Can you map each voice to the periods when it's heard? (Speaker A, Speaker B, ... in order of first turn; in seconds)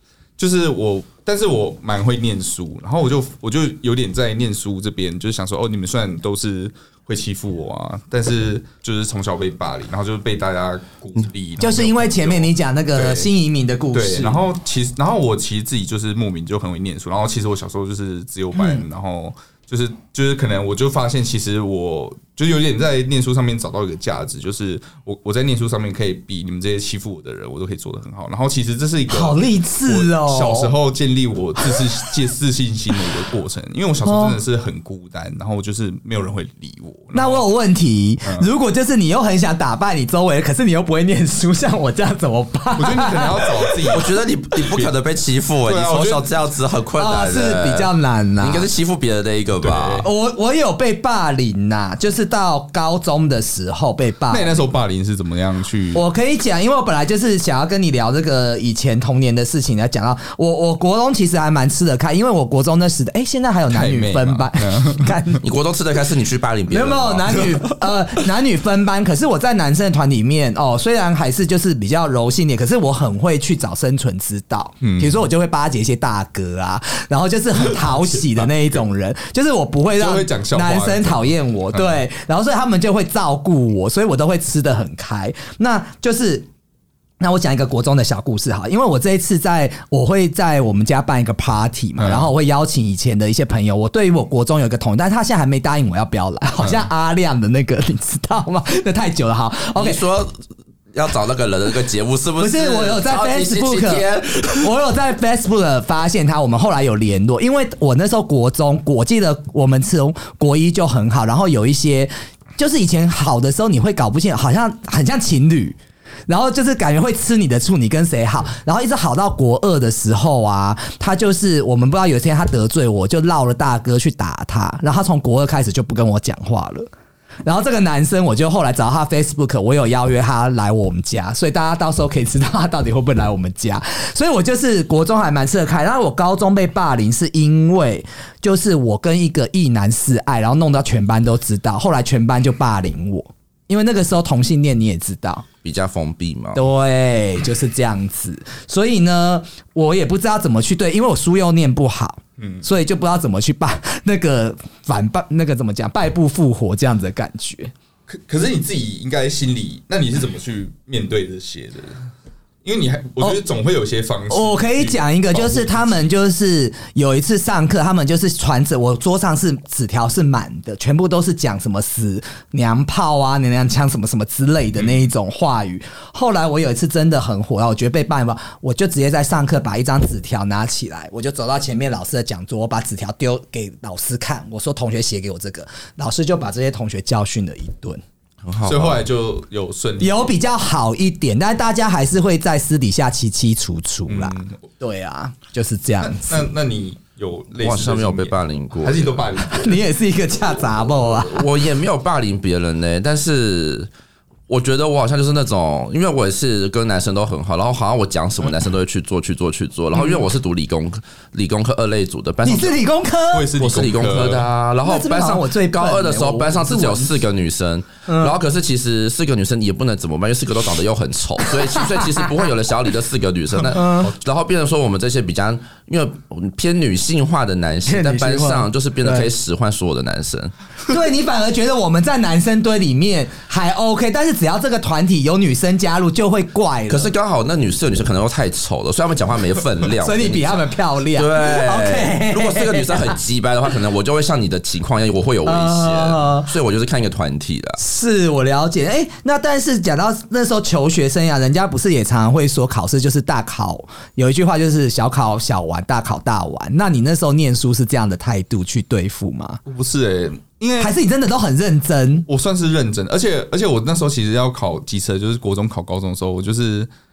Speaker A: 0.4-13.3, 13.9-37.4, 42.8-44.9, 45.7-46.3, 49.6-50.1, 54.3-56.0, 63.7-65.2, 74.8-75.2, 77.7-78.8, 80.0-82.0, 92.0-92.3, 96.6-96.9, 152.4-152.7, 158.1-162.0, 162.6-166.1, 188.6-190.3, 194.1-194.6, 196.0-199.8, 213.3-214.5, 259.7-260.9, 262.3-266.9
Speaker B: 11.6-14.4, 29.1-30.7, 34.0-34.4, 37.1-43.9, 47.0-48.7, 50.0-54.6, 55.9-65.4, 66.7-86.5, 87.2-100.0, 102.4-126.9, 127.5-145.4, 146.6-157.7, 164.3-188.0, 190.0-196.4, 199.5-201.4, 209.9-210.2, 212.4-213.5, 214.8-217.2, 218.1-218.3, 221.7-222.2, 223.7-224.1, 227.9-229.3, 230.9-237.1, 240.0-243.2, 245.4-246.5, 247.8-259.6, 260.8-262.3
Speaker C: 43.9-50.1, 65.4-67.6, 99.8-100.3, 100.9-104.7, 145.6-146.6, 188.4-189.0, 197.6-199.2, 201.2-203.9, 204.5-212.8, 213.6-230.5, 236.9-247.8